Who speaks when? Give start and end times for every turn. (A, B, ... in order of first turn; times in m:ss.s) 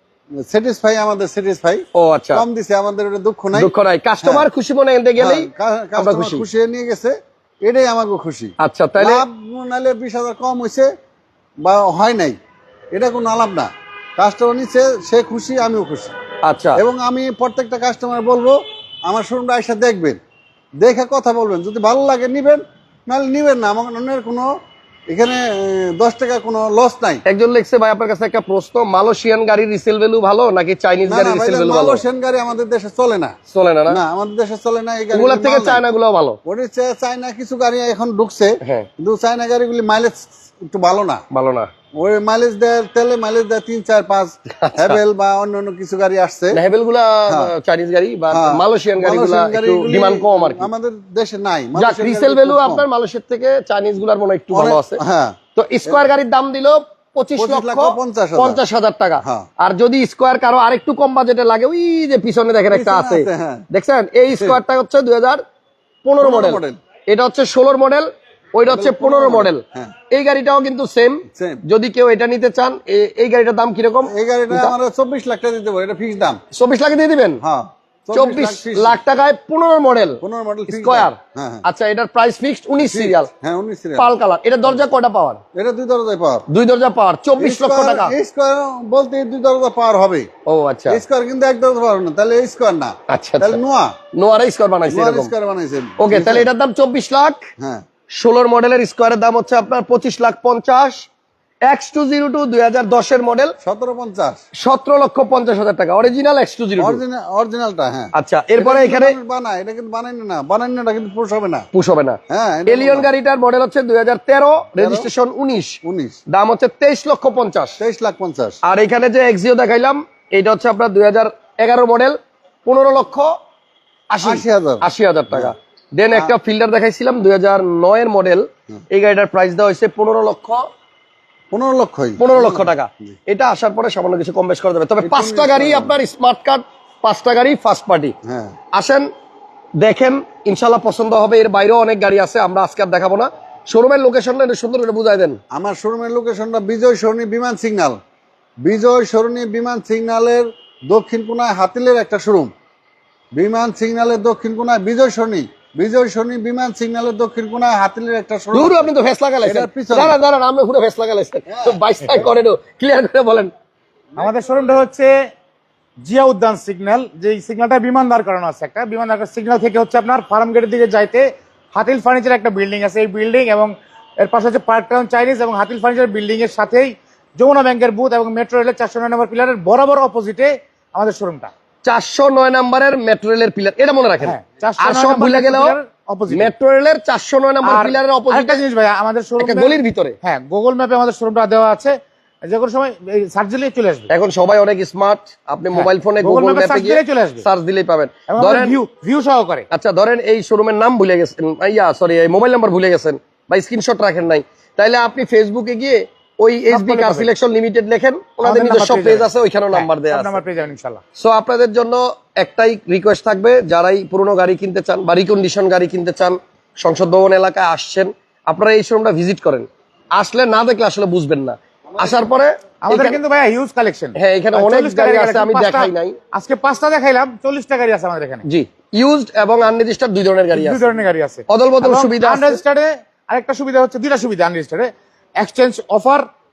0:00.4-0:04.5 A
0:02.0-0:02.4 B
0:03.5-0:06.4 B
0:05.2-0:10.9 A
0:08.6-0:09.2 B
0:11.6-0:12.4 A
0:12.9-0:16.1 A
0:16.4-0:16.8 B
0:16.8-0:20.2 A
0:20.8-0:24.5 A
0:25.1-0:27.2 A
0:27.3-0:32.0 B
0:31.1-0:33.3 A
0:33.5-0:34.0 B
0:33.9-0:35.8 A
0:35.1-0:36.4 B
0:36.5-0:41.2 A
0:41.3-0:41.7 B
0:42.0-0:46.6 A
0:44.6-0:45.0 B
0:46.5-0:50.7 B
0:48.3-0:52.9 A
0:51.8-0:55.0 B
0:54.5-0:55.4 A
0:55.6-1:05.4 B
0:57.4-0:58.6 A
0:59.2-0:59.5 A
1:02.7-1:03.6 A
1:06.0-1:14.7 B
1:06.2-1:06.8 A
1:08.7-1:09.9 A
1:11.3-1:11.6 A
1:14.1-1:16.4 A
1:16.5-1:17.4 B
1:17.4-1:19.0 A
1:18.1-1:23.3 B
1:20.2-1:21.6 A
1:22.8-1:24.1 A
1:24.0-1:25.4 B
1:25.6-1:26.4 A
1:26.5-1:28.2 B
1:27.4-1:30.3 A
1:30.5-1:31.0 B
1:30.9-1:33.9 A
1:33.1-1:33.6 B
1:34.1-1:35.3 B
1:34.9-1:36.5 A
1:36.0-1:37.4 B
1:37.6-1:37.8 A
1:38.2-1:41.1 B
1:41.7-1:43.5 B
1:43.6-1:44.4 A
1:44.6-1:47.0 B
1:46.8-1:51.7 A
1:48.2-1:49.2 B
1:51.7-1:57.8 B
1:52.3-1:53.1 A
1:54.8-1:55.1 A
1:55.8-1:56.2 A
1:57.8-1:58.6 A
1:58.6-2:03.3 B
2:04.1-2:10.6 B
2:04.2-2:05.5 A
2:11.5-2:13.2 A
2:12.2-2:18.1 B
2:15.0-2:16.0 A
2:18.2-2:18.6 A
2:18.7-2:19.1 B
2:19.8-2:25.4 B
2:25.5-2:28.0 A
2:28.6-2:32.5 A
2:33.4-2:38.9 A
2:38.5-2:43.5 B
2:39.4-2:40.2 A
2:41.5-2:42.3 A
2:44.2-2:45.2 C
2:46.0-3:01.5 C
3:01.8-3:05.8 B
3:04.2-3:06.5 C
3:06.3-3:08.6 B
3:07.6-3:14.1 C
3:09.4-3:10.2 B
3:14.1-3:18.8 B
3:15.7-3:17.4 C
3:18.3-3:19.7 C
3:19.7-3:30.4 B
3:26.7-3:27.3 C
3:28.4-3:31.0 C
3:31.2-3:43.2 B
3:42.8-3:48.4 C
3:44.2-3:46.2 B
3:48.4-3:50.9 B
3:50.5-3:56.3 C
3:51.5-3:52.6 B